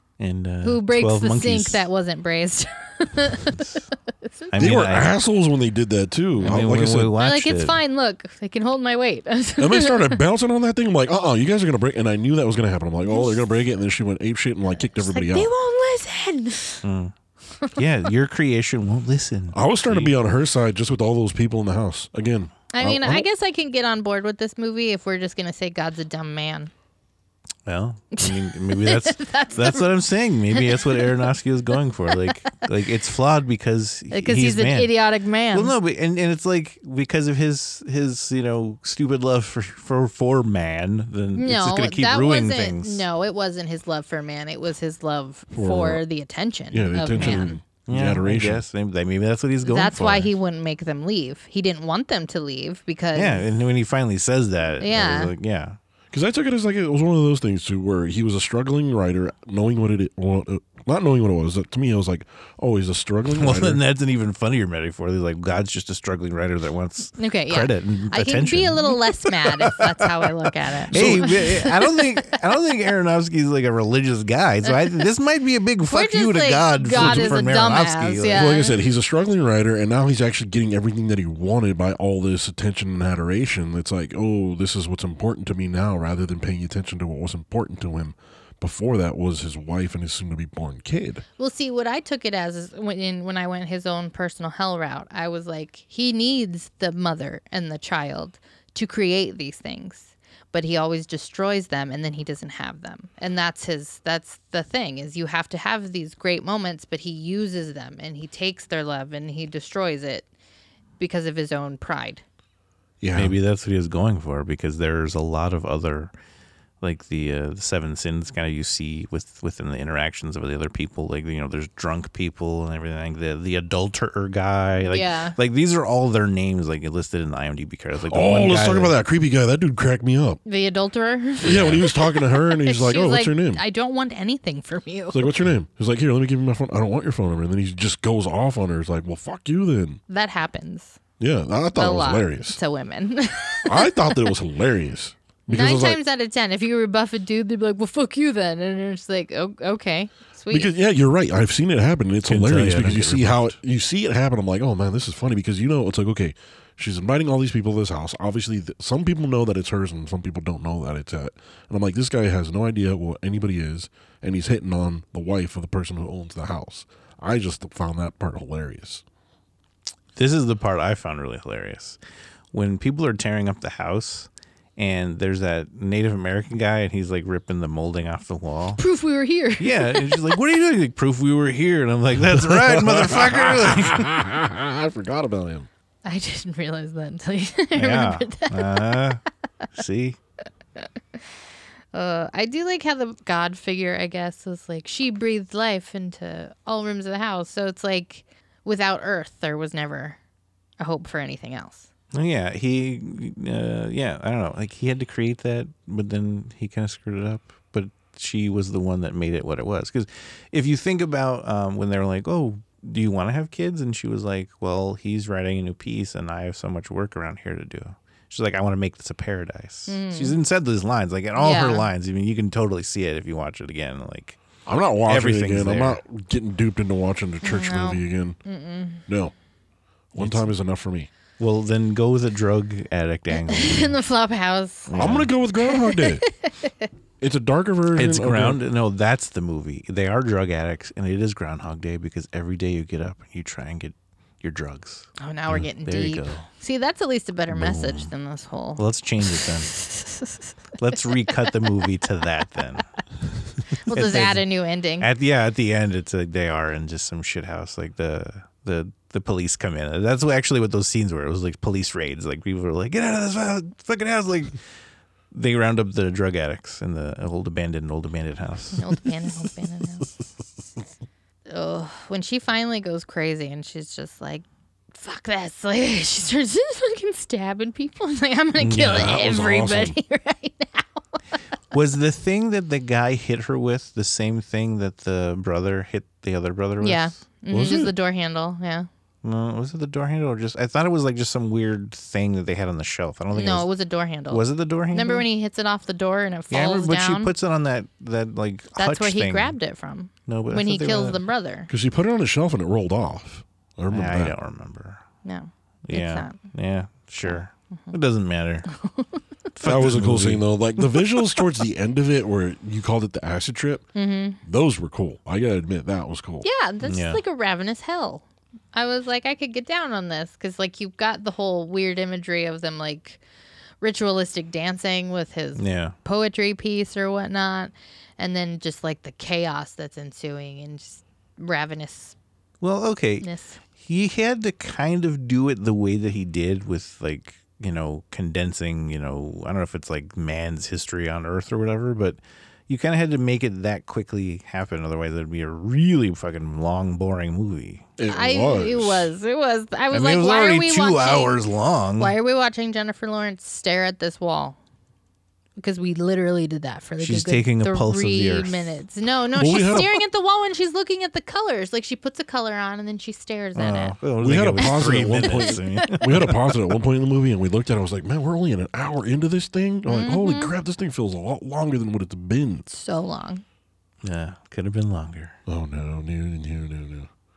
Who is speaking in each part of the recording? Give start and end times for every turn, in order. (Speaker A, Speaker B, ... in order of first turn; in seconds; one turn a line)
Speaker A: 0.2-1.9
Speaker B: 0.6-4.8
Speaker A: 3.5-3.8
Speaker A: 4.5-5.1
Speaker C: 4.6-7.2
Speaker A: 6.4-7.8
Speaker B: 7.2-10.2
Speaker C: 9.6-15.5
Speaker B: 13.1-13.4
Speaker B: 14.9-16.9
Speaker A: 16.8-17.1
Speaker A: 17.8-20.1
Speaker C: 19.5-23.2
Speaker B: 22.7-26.7
Speaker A: 27.7-34.9
Speaker B: 28.2-29.9
Speaker B: 30.5-31.3
Speaker B: 32.1-32.5
Speaker B: 34.1-35.7
Speaker A: 35.5-43.0
Speaker B: 41.4-47.5
Speaker C: 45.5-46.0
Speaker C: 46.7-48.7
Speaker A: 47.2-50.3
Speaker B: 49.6-53.5
Speaker A: 53.1-55.8
Speaker B: 54.8-55.3
Speaker C: 56.1-63.8
Speaker A: 63.3-70.3
Speaker B: 67.2-72.4
Speaker A: 70.9-78.5
Speaker C: 70.9-71.4
Speaker B: 74.7-75.0
Speaker B: 75.9-78.8
Speaker C: 77.0-77.4
Speaker C: 78.3-91.2
Speaker B: 91.4-110.3
Speaker B: 111.0-112.2
Speaker C: 113.0-113.4
Speaker A: 113.2-116.1
Speaker A: 116.8-129.0
Speaker B: 124.8-125.4
Speaker C: 128.1-130.4
Speaker B: 130.4-135.3
Speaker C: 131.4-133.6
Speaker A: 131.5-131.8
Speaker C: 135.1-140.0
Speaker B: 140.1-141.0
Speaker C: 141.2-142.6
Speaker B: 141.8-144.3
Speaker C: 143.7-146.0
Speaker B: 145.5-150.7
Speaker C: 150.5-169.0
Speaker A: 152.3-153.6
Speaker A: 170.2-172.0
Speaker A: 172.5-178.8
Speaker B: 178.8-180.4
Speaker A: 179.6-184.1
Speaker C: 182.2-185.7
Speaker B: 186.1-189.1
Speaker A: 187.8-189.2
Speaker A: 189.7-190.2
Speaker B: 191.9-200.2
Speaker B: 200.8-201.9
Speaker A: 202.1-224.4
Speaker B: 219.9-220.4
Speaker B: 221.3-221.9
Speaker C: 224.7-228.4
Speaker A: 225.1-226.0
Speaker B: 227.4-229.0
Speaker C: 229.1-229.3
Speaker C: 230.1-231.1
Speaker A: 230.2-230.5
Speaker A: 231.4-234.0
Speaker B: 233.3-235.1
Speaker A: 234.9-235.3
Speaker C: 235.0-236.2
Speaker B: 235.6-236.9
Speaker C: 237.2-238.6
Speaker A: 237.9-246.5
Speaker B: 245.2-251.6
Speaker A: 247.5-248.1
Speaker A: 248.8-249.7
Speaker A: 250.8-252.9
Speaker B: 253.8-255.1
Speaker A: 253.9-254.4
Speaker A: 255.0-264.6
Speaker A: 265.3-269.1
Speaker B: 268.8-270.1
Speaker B: 271.5-281.2
Speaker A: 278.6-279.2
Speaker C: 278.8-280.0
Speaker A: 281.7-287.2
Speaker B: 286.8-288.9
Speaker C: 287.5-287.9
Speaker A: 289.2-293.7
Speaker B: 293.3-297.3
Speaker A: 294.3-295.2
Speaker A: 296.5-299.6
Speaker B: 298.8-301.7
Speaker A: 300.3-301.2
Speaker C: 301.7-304.4
Speaker A: 303.9-305.0
Speaker B: 305.2-306.5
Speaker A: 305.9-308.7
Speaker B: 307.2-307.9
Speaker B: 308.7-309.2
Speaker A: 309.6-310.5
Speaker C: 309.6-313.9
Speaker B: 313.9-314.4
Speaker C: 314.4-316.5
Speaker B: 316.4-323.2
Speaker A: 316.8-317.2
Speaker B: 323.8-332.2
Speaker A: 325.6-325.9
Speaker A: 332.6-333.3
Speaker B: 333.2-333.6
Speaker A: 333.8-347.9
Speaker C: 348.0-349.1
Speaker B: 348.1-351.4
Speaker A: 349.9-352.1
Speaker B: 352.0-354.6
Speaker B: 355.6-364.0
Speaker A: 357.0-358.8
Speaker C: 359.4-360.0
Speaker A: 363.6-366.3
Speaker C: 364.2-372.7
Speaker B: 364.6-366.2
Speaker B: 369.9-370.5
Speaker B: 372.7-373.4
Speaker A: 374.0-375.4
Speaker C: 375.5-377.1